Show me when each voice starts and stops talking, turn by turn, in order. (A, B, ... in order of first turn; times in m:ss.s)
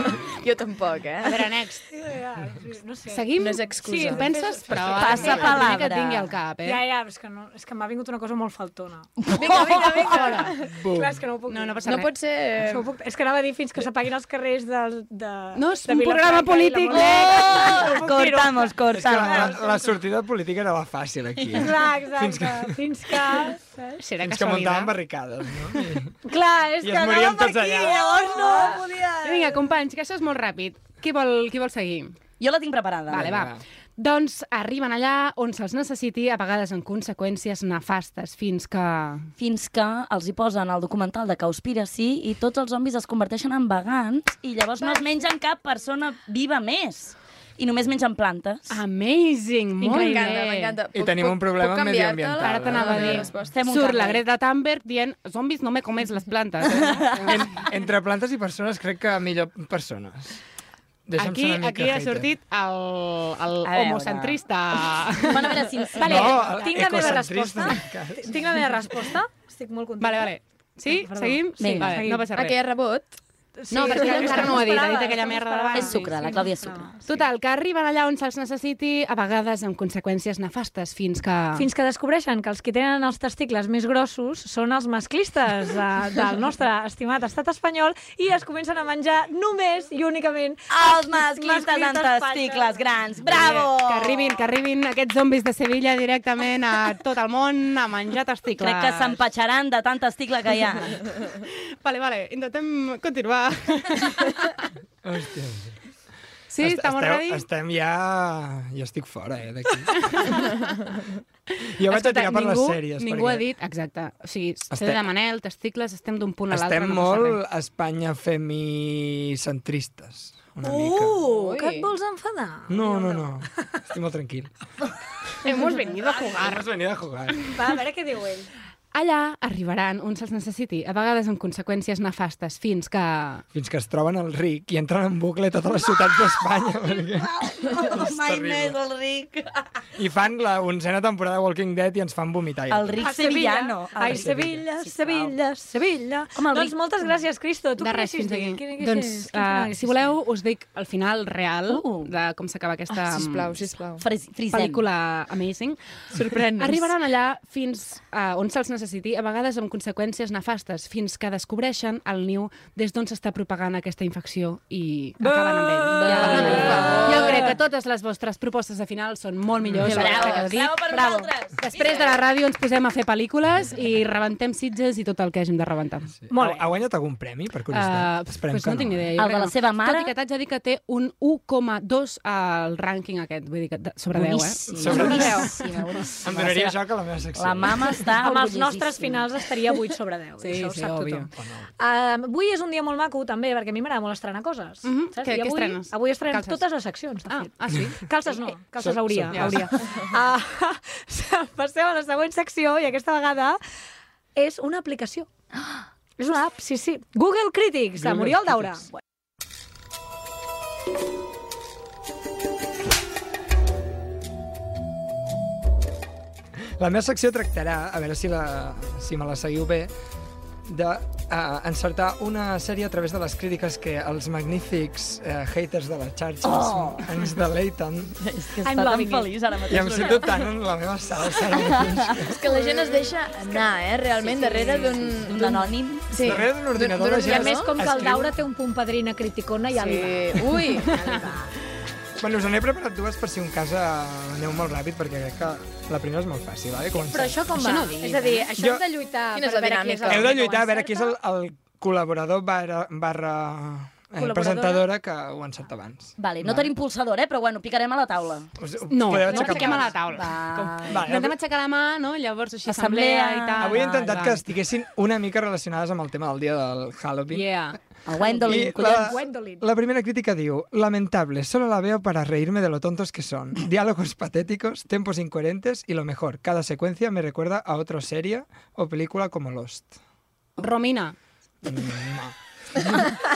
0:00.2-0:01.5 A
0:01.2-0:01.9 B
0:01.9-0:05.6 C
0:03.1-0:06.8 B
0:03.4-0:04.4 A
0:04.7-0:05.2 D
0:04.9-0:06.3 E
0:06.6-0:12.1 C
0:09.2-0:10.0 E
0:09.4-0:10.7 A
0:10.1-0:10.5 B
0:10.7-0:11.2 D
0:11.5-0:12.1 B
0:11.9-0:12.9 A
0:12.6-0:18.8 C
0:15.6-0:18.0 B
0:16.9-0:19.6 E
0:18.9-0:22.8 D
0:21.5-0:24.0 C
0:24.0-0:25.0 B
0:24.2-0:26.2 D
0:26.3-0:29.4 C
0:26.8-0:28.3 D
0:28.4-0:28.9 E
0:29.2-0:32.2 B
0:32.4-0:33.3 E
0:33.1-0:39.3 B
0:33.1-0:33.6 D
0:39.4-0:48.8 E
0:48.7-0:50.8 B
0:49.8-0:50.4 C
0:49.9-0:53.6 A
0:50.9-0:53.3 D
0:52.4-0:57.4 B
0:53.5-0:54.2 E
0:56.7-0:57.3 E
0:57.3-1:00.4 D
1:01.1-1:02.3 D
1:01.2-1:05.6 B
1:03.6-1:04.4 E
1:05.2-1:06.5 E
1:06.0-1:10.3 C
1:06.0-1:08.5 D
1:10.0-1:12.6 B
1:10.9-1:12.3 C
1:11.6-1:12.1 E
1:12.3-1:13.2 A
1:13.6-1:17.2 C
1:13.7-1:16.2 B
1:13.8-1:14.9 A
1:15.7-1:16.9 E
1:17.0-1:21.7 B
1:21.6-1:32.9 C
1:30.7-1:34.4 E
1:33.2-1:39.2 B
1:38.6-1:41.0 E
1:41.4-1:44.5 B
1:45.0-1:45.8 D
1:46.5-1:47.5 B
1:46.6-1:50.5 D
1:51.6-1:57.4 B
1:51.7-1:53.5 D
1:54.7-1:55.1 D
1:56.5-2:01.2 D
2:00.6-2:03.4 C
2:01.2-2:01.9 A
2:02.7-2:04.5 D
2:05.4-2:06.6 B
2:06.2-2:07.6 D
2:07.5-2:08.5 C
2:08.9-2:13.4 B
2:13.5-2:18.8 D
2:17.2-2:19.5 E
2:20.0-2:23.0 D
2:22.7-2:25.4 E
2:23.0-2:30.1 C
2:24.1-2:24.6 D
2:26.4-2:26.8 E
2:27.8-2:33.7 B
2:31.7-2:32.1 E
2:33.0-2:34.0 A
2:34.0-2:34.8 E
2:34.5-2:35.8 B
2:36.1-2:36.9 A
2:36.6-2:56.1 B
2:45.8-2:47.5 C
2:46.0-2:47.5 A
2:46.2-2:46.9 E
2:49.6-2:50.2 D
2:49.8-2:52.2 E
2:56.2-2:59.1 D
2:56.3-2:56.6 C
2:57.7-3:06.2 B
2:59.2-3:00.1 E
3:04.2-3:05.9 E
3:04.7-3:05.5 D
3:04.9-3:05.7 C
3:06.2-3:08.0 D
3:06.4-3:06.7 E
3:07.4-3:09.3 E
3:08.2-3:11.2 C
3:10.4-3:11.3 B
3:11.1-3:11.7 D
3:11.8-3:23.6 C
3:14.8-3:16.6 B
3:17.3-3:18.0 B
3:18.8-3:19.7 D
3:19.3-3:19.6 B
3:24.4-3:25.3 C
3:26.2-3:28.8 C
3:28.0-3:28.9 D
3:36.8-3:39.9 D
3:40.7-3:48.2 D
3:46.4-3:47.1 E
3:48.2-3:50.5 E
3:48.6-3:49.3 C
3:49.7-3:52.4 D
3:51.6-3:52.1 E
3:52.3-3:58.1 A
3:52.5-3:53.0 C
3:54.3-3:56.1 E
3:56.2-3:58.4 D
3:57.2-4:01.5 C
3:59.7-4:01.0 A
4:02.2-4:07.4 D
4:06.9-4:11.1 C
4:07.5-4:08.5 B
4:08.6-4:08.8 D
4:09.3-4:10.4 A
4:10.0-4:16.7 D
4:14.2-4:14.8 E
4:16.2-4:18.5 E
4:18.6-4:20.0 D
4:18.9-4:24.4 B
4:19.3-4:21.1 E
4:19.3-4:19.7 C
4:20.8-4:21.4 D
4:22.7-4:24.1 E
4:23.6-4:27.8 D
4:27.3-4:27.8 B
4:28.1-4:29.2 E
4:28.2-4:29.7 C
4:28.4-4:40.0 D
4:40.6-4:41.2 B
4:41.6-4:43.0 D